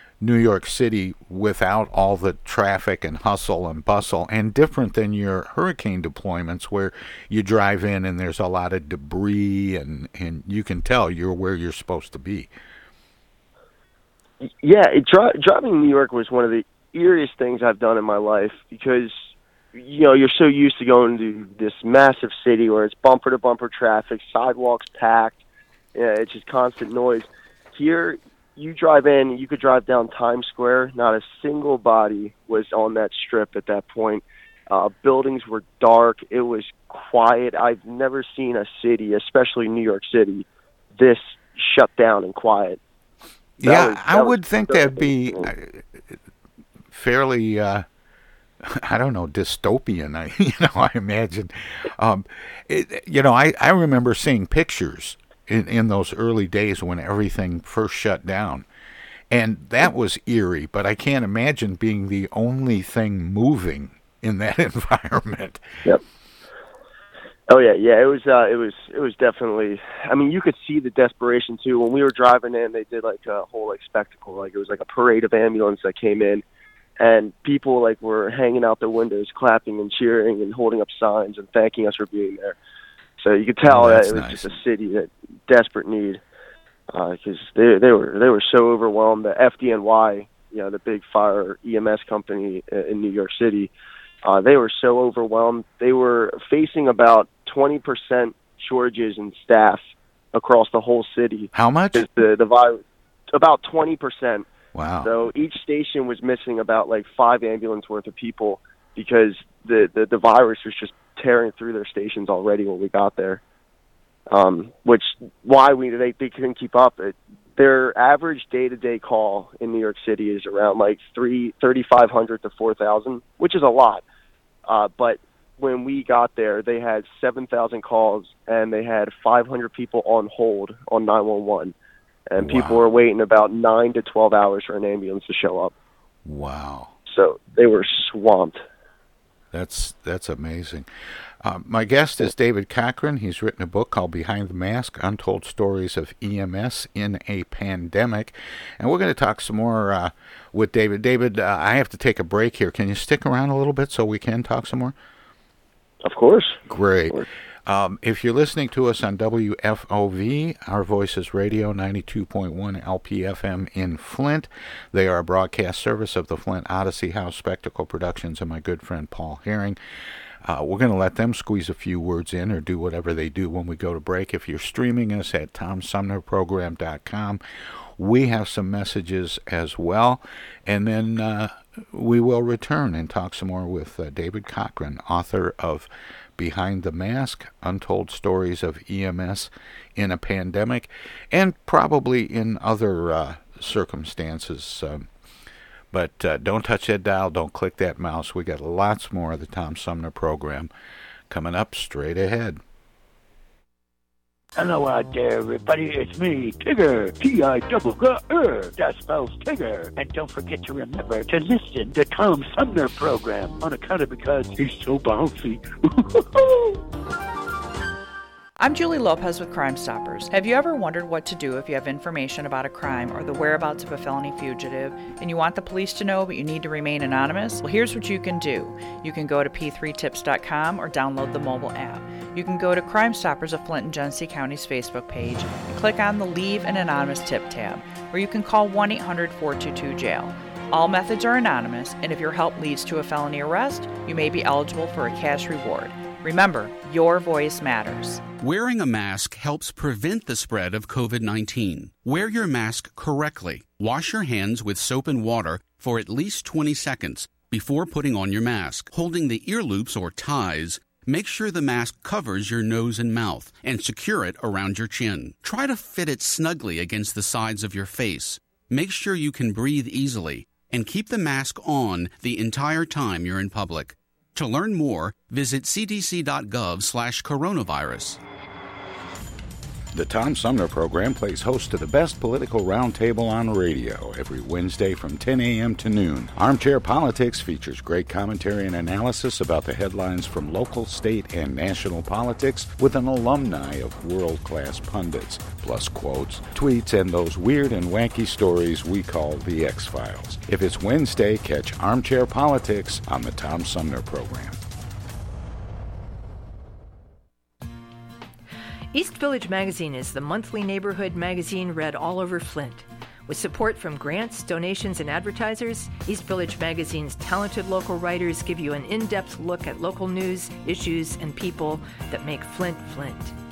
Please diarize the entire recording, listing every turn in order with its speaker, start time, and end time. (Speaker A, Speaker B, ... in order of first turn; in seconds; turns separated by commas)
Speaker A: 0.2-12.5, Speaker B: 14.4-25.4, Speaker B: 25.9-40.5, Speaker B: 41.0-42.8, Speaker A: 43.6-46.2, Speaker B: 43.6-45.5, Speaker A: 46.9-47.9, Speaker A: 48.6-58.7, Speaker A: 59.3-65.7, Speaker B: 67.5-76.4, Speaker B: 77.0-82.6, Speaker B: 83.2-86.2, Speaker A: 83.7-84.5, Speaker B: 86.9-93.7, Speaker B: 94.2-99.8, Speaker B: 100.3-102.8, Speaker A: 101.5-102.1, Speaker B: 103.3-104.5, Speaker A: 104.7-105.1, Speaker B: 105.0-113.4, Speaker B: 114.3-124.0, Speaker B: 124.7-131.7, Speaker B: 132.3-135.7, Speaker A: 132.4-132.8, Speaker A: 136.2-136.9, Speaker B: 137.1-138.6, Speaker A: 139.5-140.9, Speaker A: 141.4-154.9, Speaker B: 156.0-157.2, Speaker A: 156.7-169.8, Speaker A: 170.4-177.4, Speaker A: 178.0-195.1, Speaker A: 195.9-200.7, Speaker A: 201.3-202.6, Speaker C: 204.6-216.7, Speaker D: 218.6-248.2, Speaker E: 248.4-278.2, Speaker A: 279.9-304.6, Speaker F: 308.9-323.3